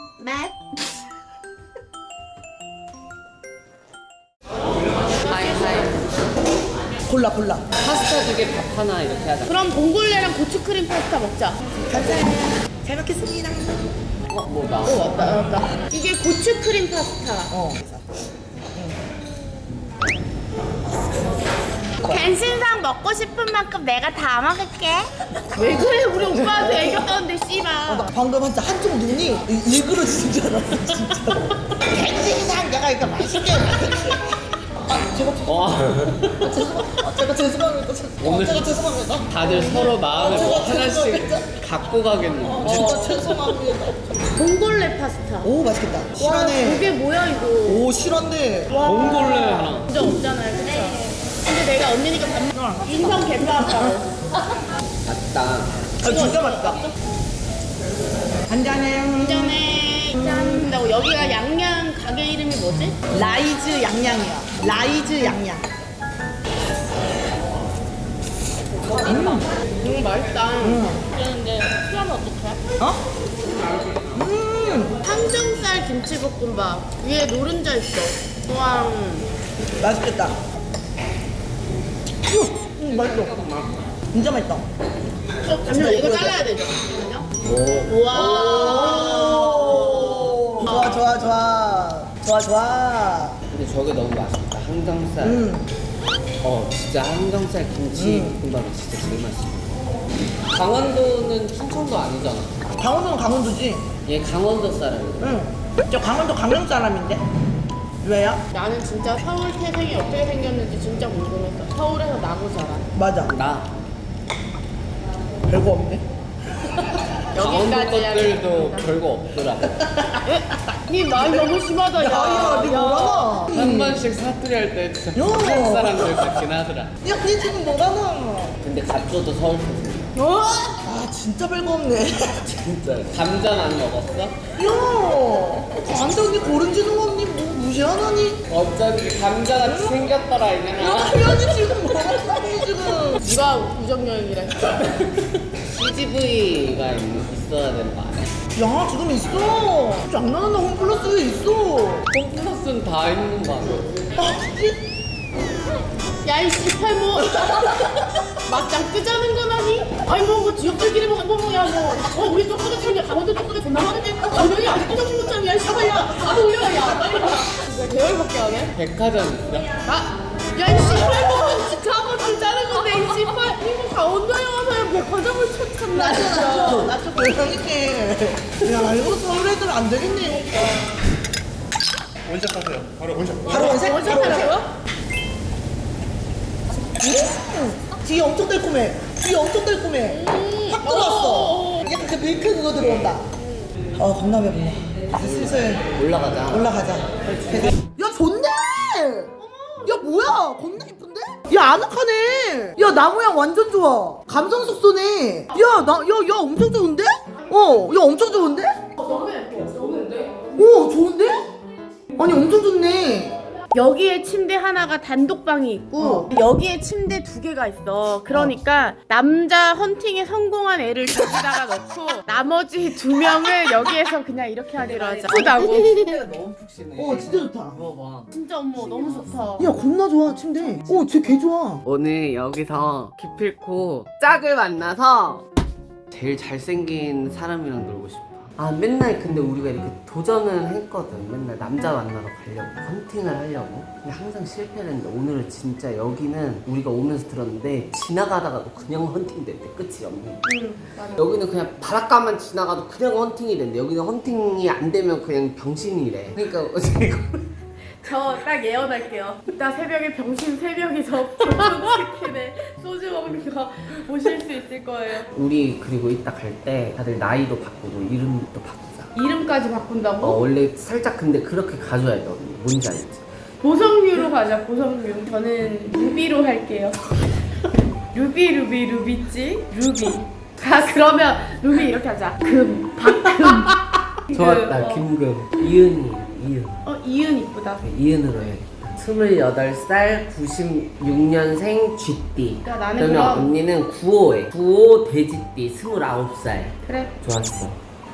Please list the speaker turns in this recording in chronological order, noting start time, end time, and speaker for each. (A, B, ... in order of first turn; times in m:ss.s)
0:00.2-0:00.5 A
0:05.1-0:05.9 B
0:05.2-0:06.0 A
0:07.1-0:07.6 C
0:07.8-0:09.5 A
0:09.5-0:11.6 B
0:11.9-0:13.8 C
0:14.3-0:15.0 A
0:14.8-0:17.5 B
0:17.5-0:18.0 C
0:22.0-0:28.1 B
0:25.6-0:27.0 C
0:27.9-0:41.5 C
0:35.5-0:36.5 A
0:38.2-0:38.8 A
0:39.3-0:43.0 A
0:42.5-0:44.3 C
0:42.7-0:43.2 B
0:44.3-0:45.5 B
0:45.4-0:46.9 C
0:46.2-0:47.9 B
0:47.6-0:49.5 C
0:48.8-0:49.9 A
0:49.6-0:54.1 B
0:52.6-0:53.7 C
0:55.0-0:55.7 A
0:56.0-0:56.8 C
0:56.0-0:56.9 B
0:58.5-0:59.5 C
0:59.2-1:03.0 B
1:03.1-1:05.7 C
1:09.0-1:09.5 C
1:09.8-1:12.7 B
1:10.6-1:11.0 C
1:14.1-1:15.0 C
1:15.0-1:19.3 B
1:19.8-1:20.4 C
1:22.3-1:23.4 C
1:22.9-1:23.8 A
1:24.1-1:24.7 C
1:25.4-1:27.3 B
1:25.6-1:26.4 C
1:27.4-1:28.9 A
1:27.9-1:31.0 B
1:28.2-1:33.4 C
1:33.5-1:35.5 A
1:35.2-1:35.7 C
1:36.4-1:39.8 A
1:37.9-1:38.4 C
1:40.5-1:42.8 A
1:42.8-1:43.9 C
1:44.0-1:45.4 A
1:45.2-1:47.2 C
1:48.0-1:48.4 C
1:48.5-1:52.9 B
1:53.0-1:53.3 C
1:53.2-1:53.7 A
1:55.5-1:56.0 C
1:57.3-1:59.0 B
1:57.4-1:59.8 A
1:59.9-2:00.2 C
2:00.2-2:03.6 B
2:02.0-2:04.0 C
2:03.5-2:06.9 A
2:05.2-2:06.5 C
2:07.0-2:08.6 C
2:08.6-2:10.1 A
2:10.2-2:10.8 B
2:10.8-2:12.4 C
2:12.4-2:14.4 A
2:14.6-2:18.4 C
2:18.5-2:22.1 A
2:19.6-2:20.0 C
2:20.8-2:23.3 C
2:23.0-2:24.9 B
2:24.8-2:28.3 A
2:28.6-2:32.1 C
2:32.1-2:34.0 A
2:34.2-2:34.8 C
2:36.2-2:48.7 B
2:48.8-2:49.7 A
2:49.8-2:56.9 B
2:55.9-3:00.6 C
3:02.3-3:04.6 C
3:03.5-3:04.7 B
3:07.0-3:13.2 C
3:10.1-3:11.9 B
3:13.4-3:13.8 B
3:14.0-3:15.9 C
3:15.2-3:16.7 A
3:16.5-3:28.9 C
3:17.2-3:17.7 A
3:19.5-3:19.9 B
3:29.0-3:30.9 B
3:30.6-3:31.4 C
3:32.2-3:33.4 C
3:33.7-3:45.9 B
3:36.0-3:36.3 C
3:44.8-3:48.3 A
3:47.0-3:47.8 C
3:48.3-3:49.8 B
3:49.6-3:51.8 C
3:51.8-3:55.4 A
3:56.1-4:10.4 A
4:10.4-4:11.3 B
4:11.2-4:17.5 A
4:18.0-4:25.3 B
4:25.3-4:29.1 A
4:29.2-4:30.4 B
4:30.2-4:33.3 A
4:33.6-4:37.0 B
4:38.1-4:43.8 B
4:43.5-4:43.8 A
4:44.3-4:45.1 B
4:44.3-4:46.8 A
4:46.8-4:47.8 B
4:47.8-4:57.8 A
4:52.6-4:53.5 B
4:56.8-4:57.1 B